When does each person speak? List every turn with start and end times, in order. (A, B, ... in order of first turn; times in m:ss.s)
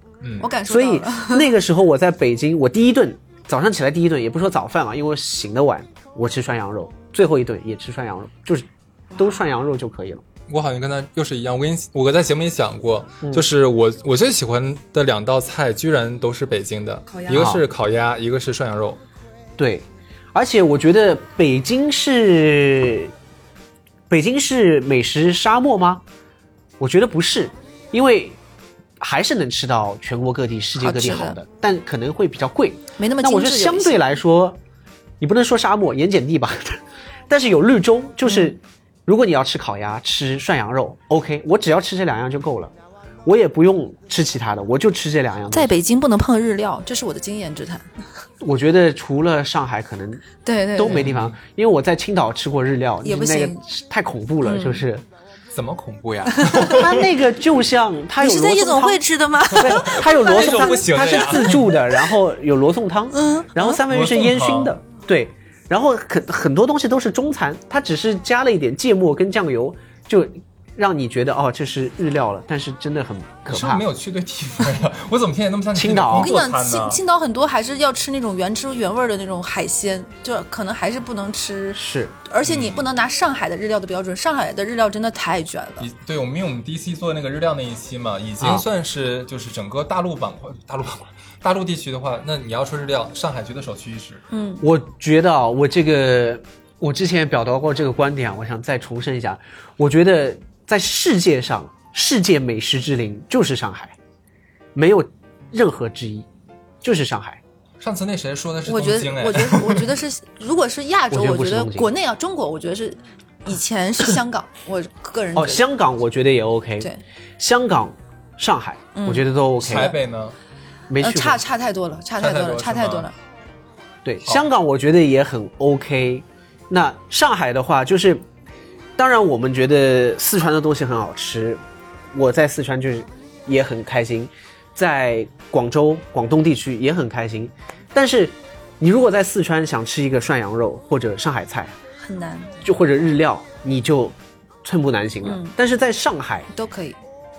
0:00.2-0:00.5 A
0:00.4-0:01.5 B
0:00.6-0:10.2 C
0:10.5-0:19.0 A
0:13.2-0:13.5 C
0:17.1-0:17.5 B
0:17.3-0:17.6 C
0:19.6-0:23.1 C
0:24.1-0:26.0 C
0:26.8-0:28.4 C
0:29.0-0:34.6 C
0:30.8-0:31.4 B
0:33.0-0:34.0 B
0:35.2-0:42.7 C
0:38.2-0:38.5 B
0:43.2-0:45.7 C
0:45.5-0:48.0 B
0:48.4-0:55.0 C
0:50.4-0:51.0 B
0:50.9-0:51.4 A
0:53.0-0:53.6 B
0:54.4-0:54.8 B
0:55.5-0:57.0 A
0:56.3-0:56.9 B
0:56.6-1:13.8 C
0:58.2-1:01.5 B
0:59.6-1:01.8 A
1:03.1-1:03.8 B
1:03.9-1:04.8 A
1:13.5-1:17.0 A
1:15.7-1:16.3 C
1:16.1-1:25.9 B
1:21.7-1:22.2 C
1:22.4-1:22.8 A
1:25.8-1:34.2 A
1:28.4-1:28.6 C
1:34.3-1:34.6 B
1:34.6-1:44.0 C
1:44.7-1:46.3 C
1:46.8-1:47.4 C
1:47.8-1:49.9 A
1:48.7-1:55.6 B
1:51.1-1:51.9 C
1:55.3-1:59.9 C
1:58.9-1:59.9 B
1:59.6-2:00.3 A
2:00.9-2:01.4 C
2:01.0-2:03.1 B
2:02.2-2:03.1 A
2:04.0-2:08.2 C
2:09.0-2:11.6 C
2:12.1-2:21.7 C
2:22.0-2:22.6 B
2:22.6-2:26.5 C
2:25.2-2:25.5 B
2:26.5-2:27.0 B